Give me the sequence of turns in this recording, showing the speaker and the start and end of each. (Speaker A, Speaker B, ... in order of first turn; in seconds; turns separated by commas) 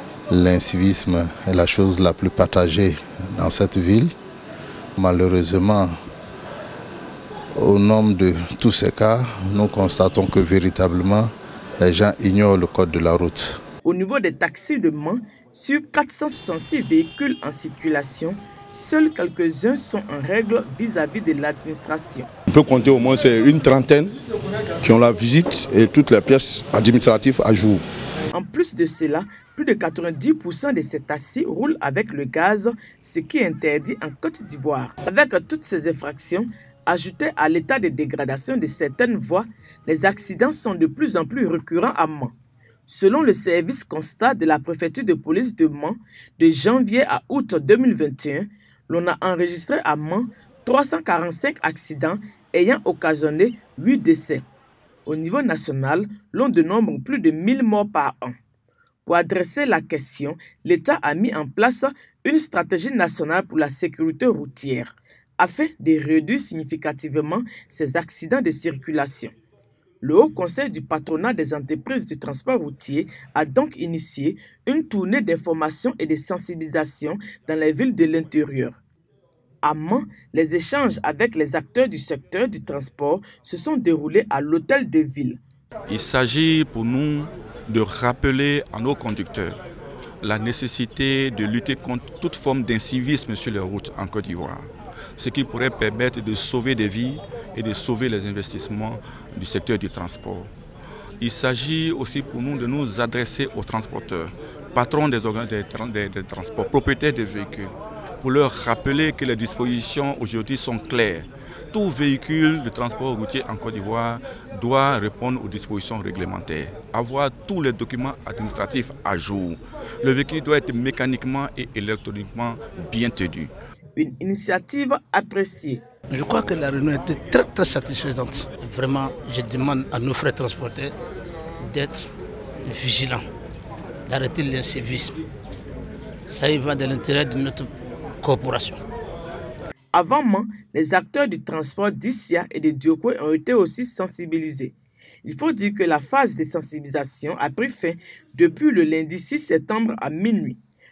Speaker A: 0.3-4.1, Speaker A: 5.0-5.9, Speaker A: 7.5-13.6, Speaker B: 13.8-22.3, Speaker C: 22.6-24.1, Speaker D: 23.3-23.7, Speaker C: 24.8-27.8, Speaker D: 25.9-26.3, Speaker B: 28.3-42.3, Speaker B: 42.9-54.4, Speaker B: 55.0-58.3, Speaker B: 59.0-69.3, Speaker B: 70.0-78.8, Speaker B: 79.6-85.4, Speaker D: 85.9-89.6, Speaker D: 90.2-100.5, Speaker D: 101.2-123.5, Speaker B: 124.0-125.8, Speaker E: 126.1-131.0, Speaker E: 131.6-133.3, Speaker E: 134.1-135.2, Speaker E: 136.3-138.8, Speaker B: 139.9-150.6